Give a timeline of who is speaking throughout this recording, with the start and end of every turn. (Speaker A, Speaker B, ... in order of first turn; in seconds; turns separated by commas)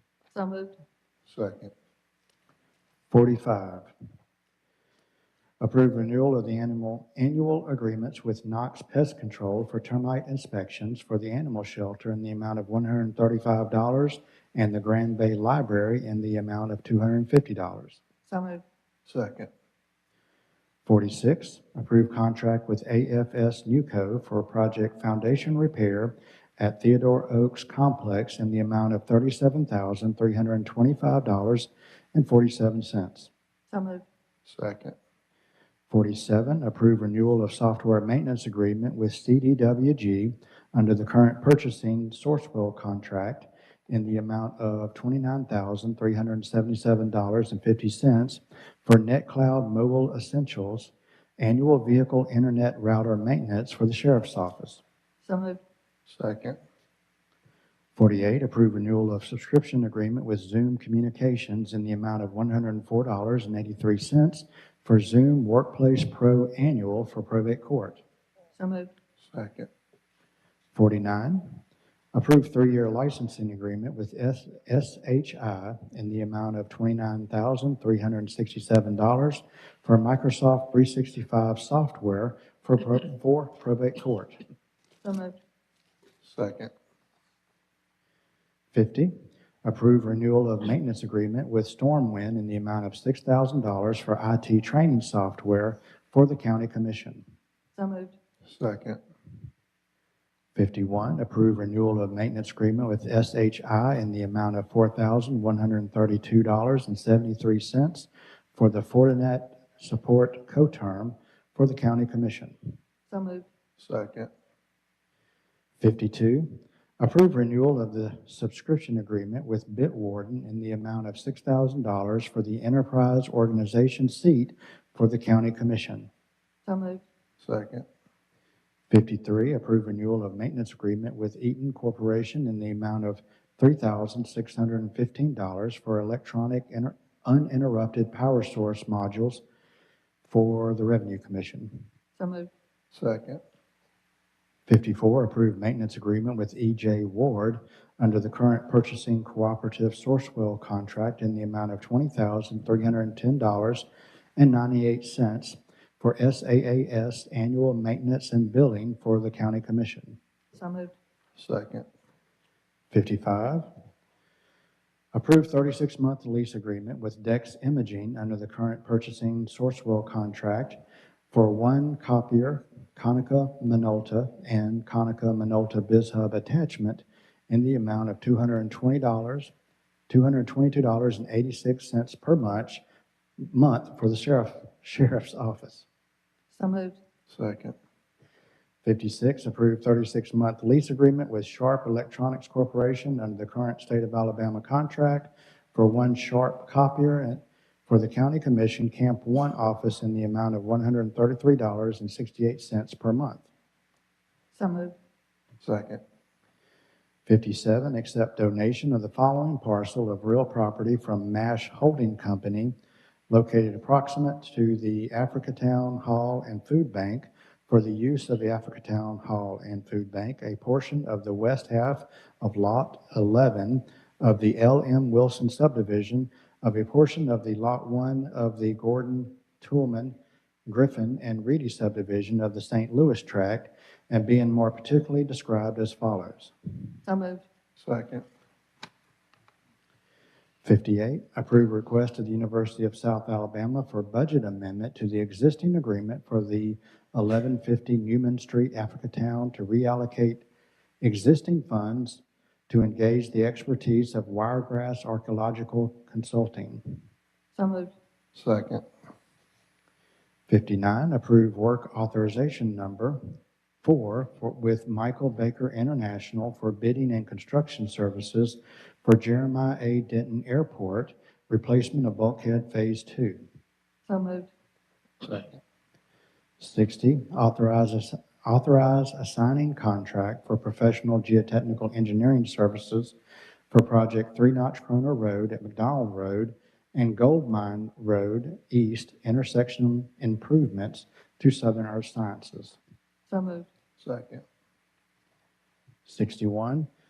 Speaker A: 0.3-0.8, Speaker B: 1.3-1.7, Speaker C: 3.1-3.9, Speaker C: 5.6-18.0, Speaker A: 18.3-18.6, Speaker B: 19.1-19.5, Speaker C: 20.9-33.3, Speaker A: 33.7-34.0, Speaker B: 34.5-35.0, Speaker C: 35.9-54.8, Speaker A: 55.2-55.6, Speaker B: 56.1-56.6, Speaker C: 58.0-68.0, Speaker A: 68.6-68.9, Speaker B: 69.3-69.7, Speaker C: 70.7-71.6, Speaker C: 72.1-84.4, Speaker A: 85.0-85.4, Speaker B: 86.2-86.7, Speaker C: 88.7-97.2, Speaker A: 97.8-98.1, Speaker B: 98.5-99.0, Speaker C: 100.5-112.6, Speaker A: 113.1-113.5, Speaker B: 113.8-114.3, Speaker C: 115.8-126.1, Speaker A: 126.6-127.0, Speaker B: 127.4-127.9, Speaker C: 128.9-139.4, Speaker C: 140.3-141.8, Speaker A: 142.2-142.5, Speaker B: 142.9-143.4, Speaker C: 144.7-160.2, Speaker A: 160.6-160.9, Speaker B: 161.4-161.9, Speaker C: 162.9-163.7, Speaker C: 165.1-170.8, Speaker C: 171.3-179.5, Speaker C: 180.1-182.8, Speaker C: 183.4-185.9, Speaker A: 186.6-187.0, Speaker B: 187.3-187.8, Speaker C: 188.8-203.5, Speaker A: 204.6-204.9, Speaker B: 205.6-206.0, Speaker C: 207.3-212.8, Speaker C: 213.3-236.5, Speaker A: 237.0-237.4, Speaker B: 237.8-238.2, Speaker C: 240.6-250.4, Speaker C: 251.0-257.0, Speaker A: 257.5-257.9, Speaker B: 258.3-258.8, Speaker C: 260.5-263.2, Speaker C: 263.8-273.4, Speaker A: 274.1-274.5, Speaker C: 276.6-283.1, Speaker C: 283.7-292.8, Speaker A: 293.3-293.7, Speaker B: 294.0-294.4, Speaker C: 296.1-296.9